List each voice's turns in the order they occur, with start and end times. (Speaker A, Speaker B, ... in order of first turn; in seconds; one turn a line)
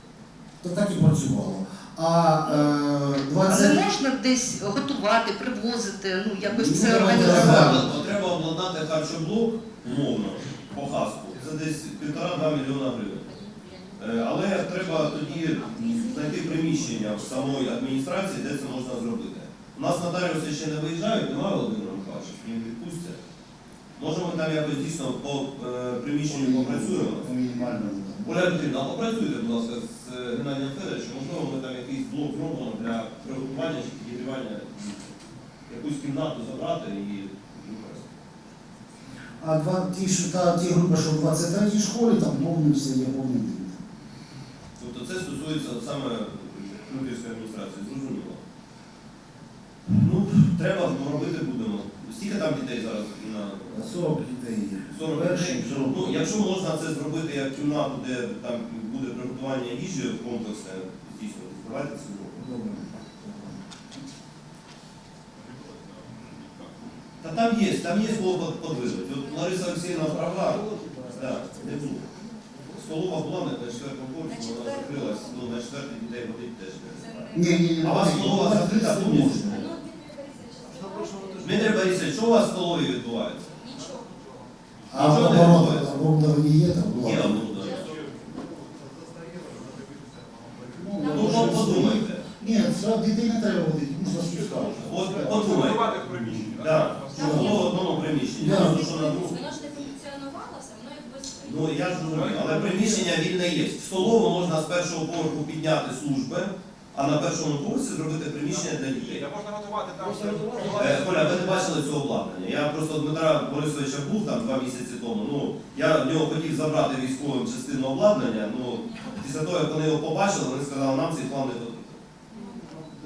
Speaker A: 0.6-3.9
Speaker B: 3.5-7.8
Speaker A: 6.4-7.9
Speaker C: 7.1-13.3
Speaker D: 13.3-16.8
Speaker C: 14.0-23.2
Speaker C: 24.0-27.3
Speaker A: 26.2-28.5
Speaker C: 28.2-35.1
Speaker C: 35.7-38.1
Speaker A: 39.4-43.8
Speaker C: 44.8-48.4
Speaker C: 49.9-53.9
Speaker A: 53.7-56.3
Speaker C: 54.9-62.4
Speaker A: 62.4-63.6
Speaker C: 67.2-72.1
Speaker D: 69.0-69.8
Speaker C: 72.8-79.7
Speaker D: 74.3-75.4
Speaker D: 76.9-77.5
Speaker A: 77.3-79.7
Speaker D: 79.5-81.9
Speaker C: 81.4-83.5
Speaker D: 83.6-84.2
Speaker A: 84.9-87.5
Speaker C: 84.9-85.9
Speaker C: 87.0-87.8
Speaker E: 89.2-90.0
Speaker A: 90.7-95.4
Speaker D: 91.0-91.8
Speaker C: 91.1-92.3
Speaker C: 94.8-99.4
Speaker E: 95.6-96.5
Speaker A: 96.1-96.4
Speaker A: 97.1-97.8
Speaker D: 97.1-97.7
Speaker A: 98.4-98.9
Speaker D: 98.5-101.9
Speaker C: 101.4-109.3
Speaker E: 109.3-110.9
Speaker C: 110.7-122.0
Speaker D: 122.3-122.6